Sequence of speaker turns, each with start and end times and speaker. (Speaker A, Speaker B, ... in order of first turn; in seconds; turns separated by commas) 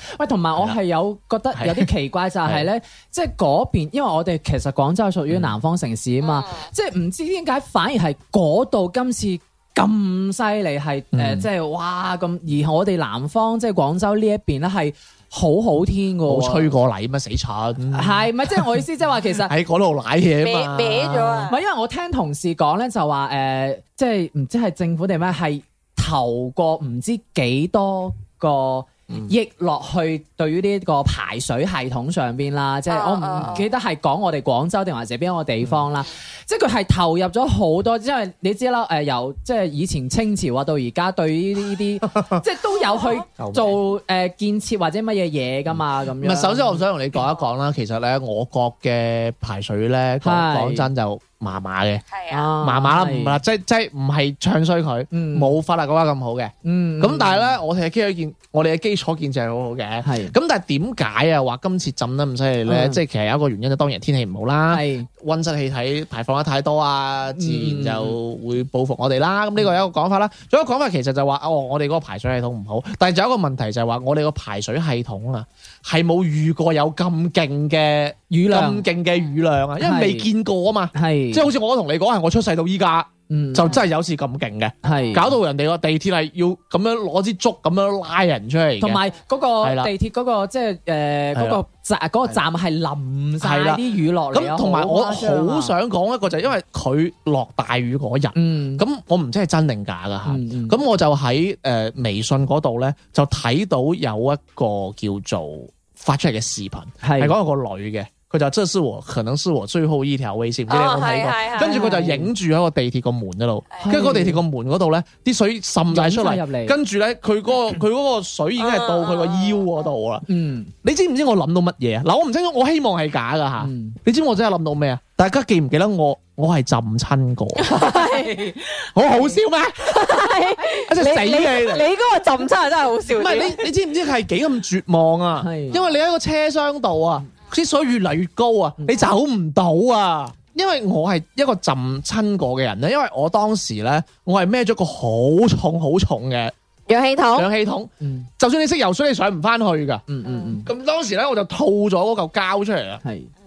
Speaker A: 0.2-16.7, Speaker B: 1.6-1.9, Speaker B: 5.3-5.5, Speaker C: 6.2-6.5, Speaker B: 11.1-11.5, Speaker B: 16.3-18.8, Speaker A: 17.9-19.5, Speaker B: 19.4-21.5, Speaker C: 20.4-21.6, Speaker A: 21.5-46.8, Speaker C: 32.9-33.6, Speaker B: 35.6-35.9, Speaker B: 43.4-43.8, Speaker B: 45.7-52.0, Speaker A: 50.2-50.9, Speaker C: 52.1-52.5, Speaker A: 52.3-53.4, Speaker B: 52.6-89.0, Speaker A: 55.1-55.6, Speaker A: 56.6-57.5, Speaker A: 60.0-60.3, Speaker A: 62.7-63.0, Speaker A: 64.7-65.1, Speaker A: 67.3-68.2, Speaker A: 78.3-78.9, Speaker A: 79.8-80.3, Speaker A: 80.9-81.5, Speaker A: 83.3-83.8, Speaker A: 84.8-85.4, Speaker A: 88.8-95.7, Speaker B: 89.6-89.9, Speaker B: 91.3-91.6, Speaker B: 93.4-120.3, Speaker A: 98.4-98.8, Speaker A: 100.3-100.8, Speaker A: 107.0-107.4, Speaker C: 110.7-111.9, Speaker A: 111.6-112.3, Speaker A: 113.8-114.4, Speaker A: 115.9-116.8, Speaker C: 118.6-119.7, Speaker A: 120.3-120.7, Speaker B: 120.8-127.9, Speaker A: 123.6-124.0, Speaker C: 127.7-128.2, Speaker A: 127.8-129.3, Speaker B: 128.9-131.9, Speaker C: 129.9-133.6, Speaker B: 133.1-146.5, Speaker A: 135.4-135.8, Speaker A: 138.8-139.1, Speaker C: 146.9-147.5, Speaker B: 147.3-150.0, Speaker A: 148.0-148.3, Speaker A: 150.1-150.7, Speaker B: 150.6-153.0, Speaker A: 153.0-153.3